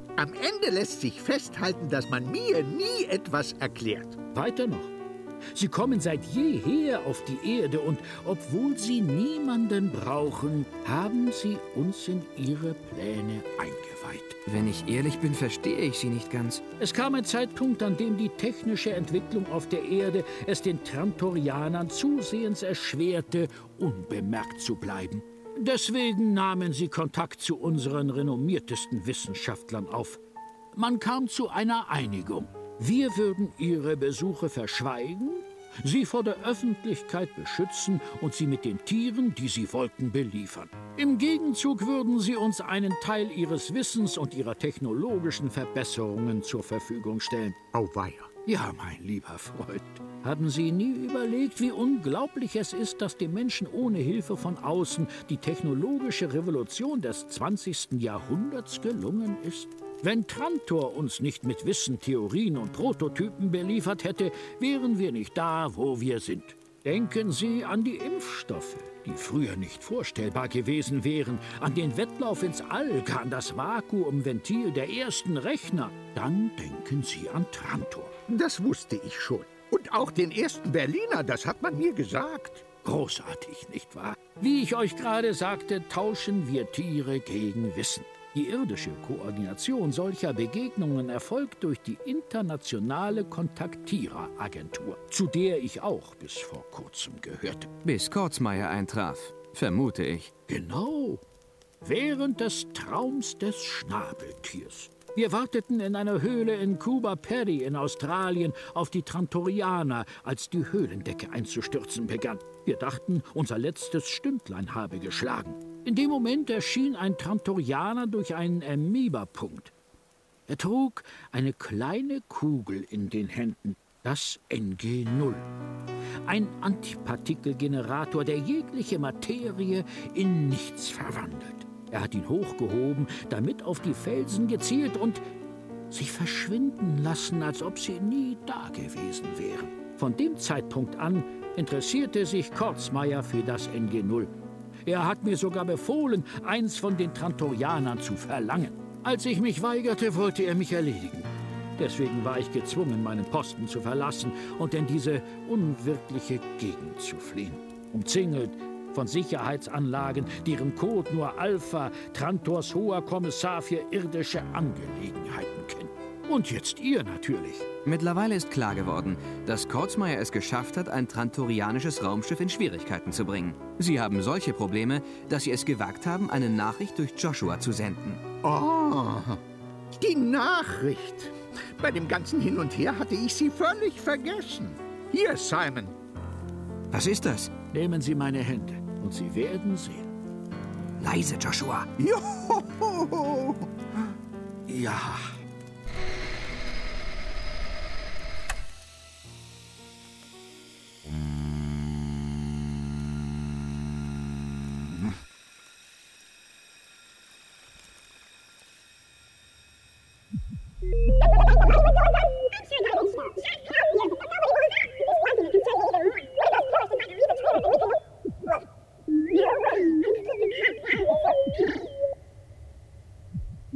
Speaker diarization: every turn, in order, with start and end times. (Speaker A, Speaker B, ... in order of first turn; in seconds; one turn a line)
Speaker A: 0.2-4.2
Speaker B: 4.3-4.9
Speaker B: 5.5-14.3
Speaker C: 14.4-16.6
Speaker B: 16.8-30.2
Speaker B: 30.7-47.6
Speaker A: 47.7-48.3
Speaker B: 48.5-78.1
Speaker A: 78.3-82.7
Speaker B: 82.8-97.7
Speaker C: 97.8-100.3
Speaker B: 100.5-101.2
Speaker B: 101.8-119.7
Speaker B: 120.5-125.5
Speaker B: 126.2-135.2
Speaker B: 135.9-144.3
Speaker B: 144.8-167.7
Speaker C: 167.8-178.2
Speaker A: 178.4-179.4
Speaker A: 180.0-185.9
Speaker C: 186.9-187.5
Speaker B: 187.7-190.1
Speaker C: 191.0-191.9
Speaker A: 192.0-193.7
Speaker B: 194.7-195.4